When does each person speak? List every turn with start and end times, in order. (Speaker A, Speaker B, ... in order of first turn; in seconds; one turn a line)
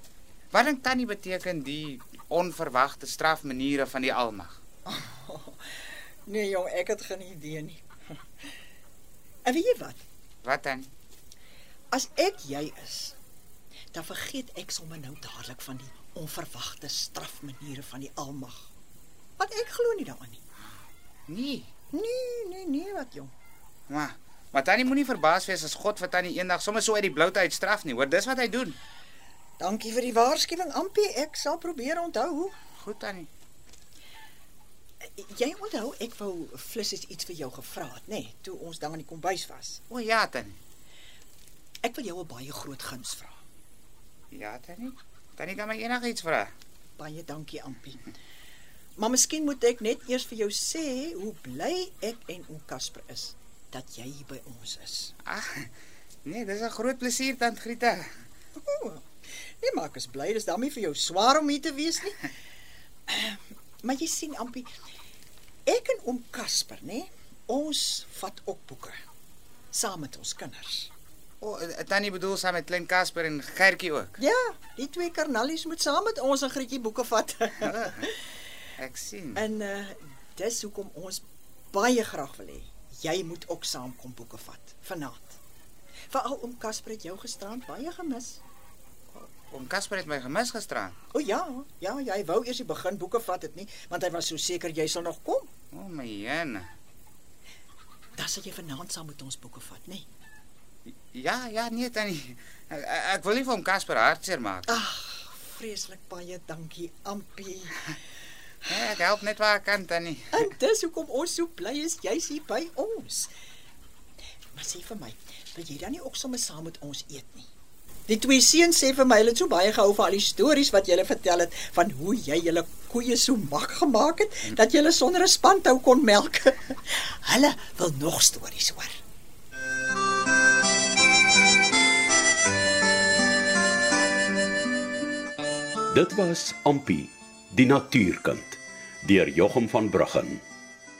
Speaker A: 0.5-4.5
Speaker B: 4.8-7.8
Speaker B: 9.4-10.0
Speaker A: 10.4-10.9
Speaker B: 11.9-13.2
Speaker B: 13.9-18.7
Speaker B: 19.4-20.4
Speaker A: 21.3-21.7
Speaker B: 21.9-23.3
Speaker A: 23.9-28.8
Speaker B: 29.6-32.5
Speaker A: 32.8-33.3
Speaker B: 35.0-39.8
Speaker A: 39.9-40.6
Speaker B: 41.8-43.4
Speaker A: 44.3-46.5
Speaker B: 47.0-48.1
Speaker B: 49.0-55.1
Speaker A: 55.2-55.7
Speaker A: 56.2-58.1
Speaker B: 58.6-59.0
Speaker B: 59.6-62.3
Speaker B: 63.1-64.7
Speaker B: 65.7-69.0
Speaker B: 69.7-70.9
Speaker A: 71.4-74.2
Speaker B: 74.2-78.1
Speaker A: 77.6-78.1
Speaker A: 78.8-79.4
Speaker B: 79.3-85.4
Speaker B: 86.1-88.4
Speaker A: 89.1-91.0
Speaker B: 91.1-95.5
Speaker A: 95.7-96.7
Speaker B: 98.2-100.1
Speaker A: 101.1-104.8
Speaker B: 104.7-107.9
Speaker A: 108.7-110.5
Speaker B: 110.3-113.3
Speaker B: 114.5-117.5
Speaker B: 118.1-129.0
Speaker C: 135.9-140.4